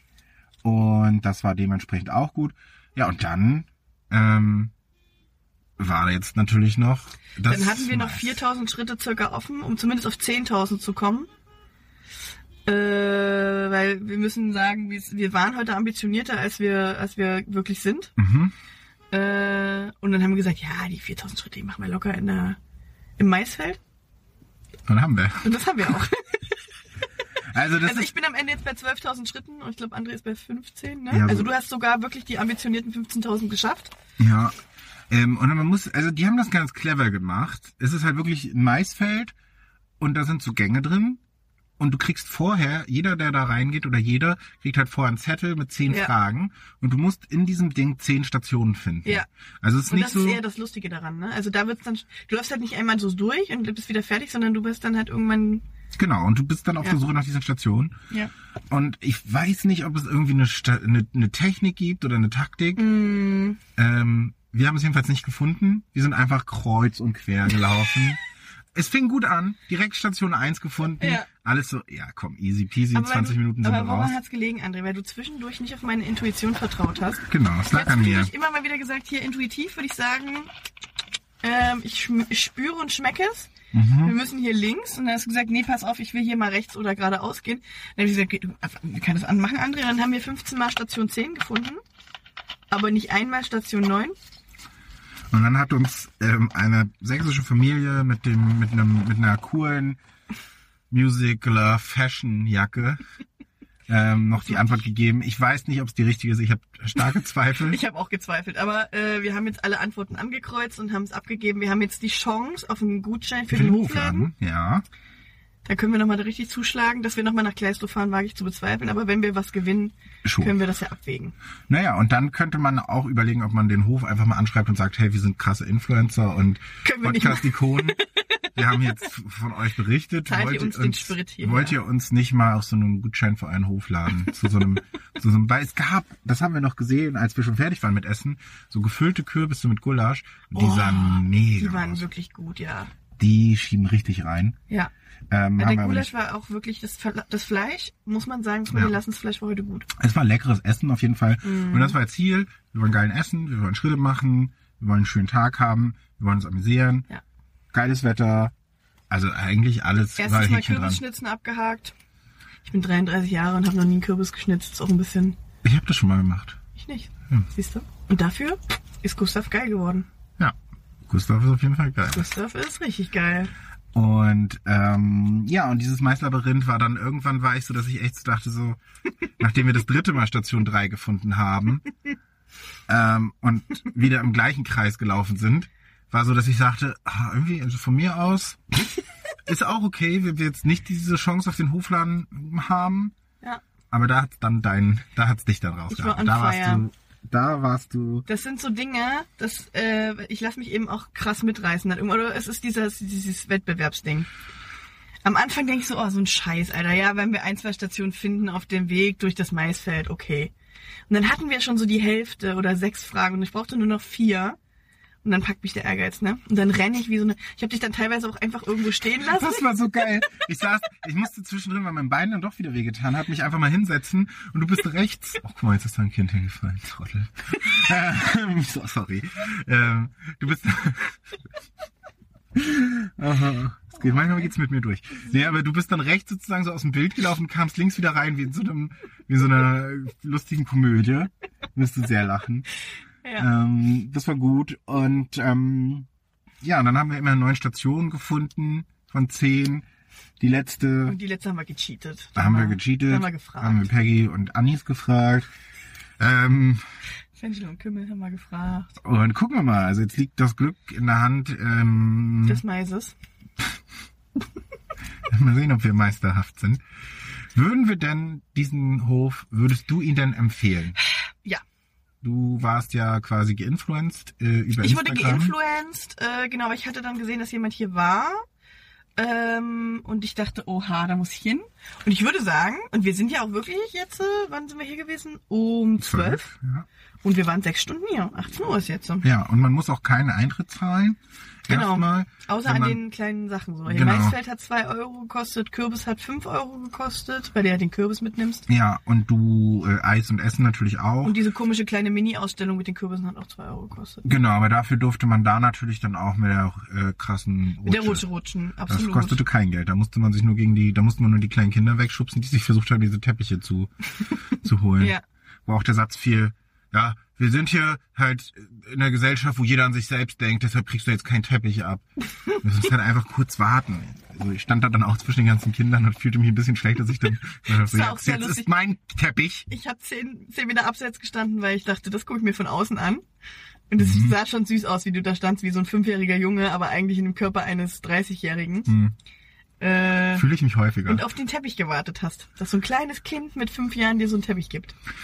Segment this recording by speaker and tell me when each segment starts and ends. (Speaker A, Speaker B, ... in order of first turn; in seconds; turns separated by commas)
Speaker A: 0.6-4.7, Speaker A: 5.8-8.4, Speaker B: 7.5-11.3, Speaker B: 12.7-18.1, Speaker A: 18.2-18.5, Speaker B: 19.1-22.6, Speaker B: 23.2-23.8, Speaker A: 24.9-25.9, Speaker B: 25.4-26.6, Speaker A: 27.5-28.1, Speaker B: 27.8-33.9, Speaker A: 31.1-31.5, Speaker A: 34.2-34.5, Speaker A: 35.1-39.4, Speaker A: 40.0-41.2, Speaker A: 41.8-50.4, Speaker B: 49.9-55.6, Speaker A: 56.0-58.0, Speaker A: 58.7-62.8, Speaker B: 62.8-63.6, Speaker A: 63.8-68.2, Speaker A: 68.8-74.2, Speaker B: 71.0-71.3, Speaker B: 72.9-80.5, Speaker A: 77.2-78.3, Speaker B: 81.4-91.8, Speaker A: 83.7-84.2, Speaker B: 92.7-94.2, Speaker A: 95.3-100.0, Speaker A: 100.9-103.0, Speaker A: 103.9-107.8, Speaker B: 104.4-104.7, Speaker B: 107.7-114.3, Speaker A: 113.5-114.8, Speaker B: 115.7-121.3, Speaker A: 120.2-120.6, Speaker A: 121.7-128.0, Speaker B: 126.8-128.1, Speaker A: 128.6-142.1, Speaker B: 130.3-131.8, Speaker B: 140.5-142.9, Speaker A: 143.2-144.6, Speaker A: 145.3-146.1, Speaker B: 145.6-149.9, Speaker A: 148.7-149.0, Speaker A: 149.9-157.1, Speaker B: 151.4-152.0, Speaker A: 157.7-158.5, Speaker A: 159.1-161.0, Speaker B: 160.2-161.9, Speaker B: 162.6-165.4, Speaker A: 165.6-166.6, Speaker B: 166.8-170.1, Speaker A: 171.1-172.3, Speaker B: 172.1-173.5, Speaker A: 173.9-178.8, Speaker A: 179.4-181.8, Speaker A: 182.9-188.7, Speaker A: 189.5-193.2, Speaker A: 193.9-198.3, Speaker B: 195.9-196.9, Speaker B: 198.3-204.3, Speaker B: 205.2-210.5, Speaker B: 211.1-214.6, Speaker B: 215.2-219.6, Speaker A: 219.2-231.4, Speaker A: 232.6-242.7, Speaker A: 243.4-246.1, Speaker A: 246.6-249.8, Speaker A: 250.4-251.2, Speaker B: 251.1-253.9, Speaker A: 252.4-255.5, Speaker A: 256.2-256.8, Speaker B: 257.4-258.9, Speaker A: 259.0-262.6, Speaker B: 262.4-263.1, Speaker A: 265.3-266.8, Speaker A: 267.5-271.0, Speaker A: 272.2-275.5, Speaker B: 274.8-278.4, Speaker B: 279.2-286.5, Speaker A: 286.0-286.9, Speaker B: 287.2-289.3, Speaker A: 289.2-293.0, Speaker B: 291.7-298.7, Speaker A: 293.9-294.4, Speaker A: 298.7-301.4, Speaker B: 301.2-304.3, Speaker A: 304.2-308.2, Speaker B: 307.9-309.4, Speaker A: 308.9-313.9, Speaker A: 314.5-322.0, Speaker A: 322.6-329.7, Speaker B: 327.7-328.7, Speaker B: 329.7-333.3, Speaker B: 333.9-338.9, Speaker A: 334.0-334.4, Speaker A: 338.9-339.1, Speaker B: 339.8-340.5, Speaker A: 340.4-341.2, Speaker B: 341.1-344.9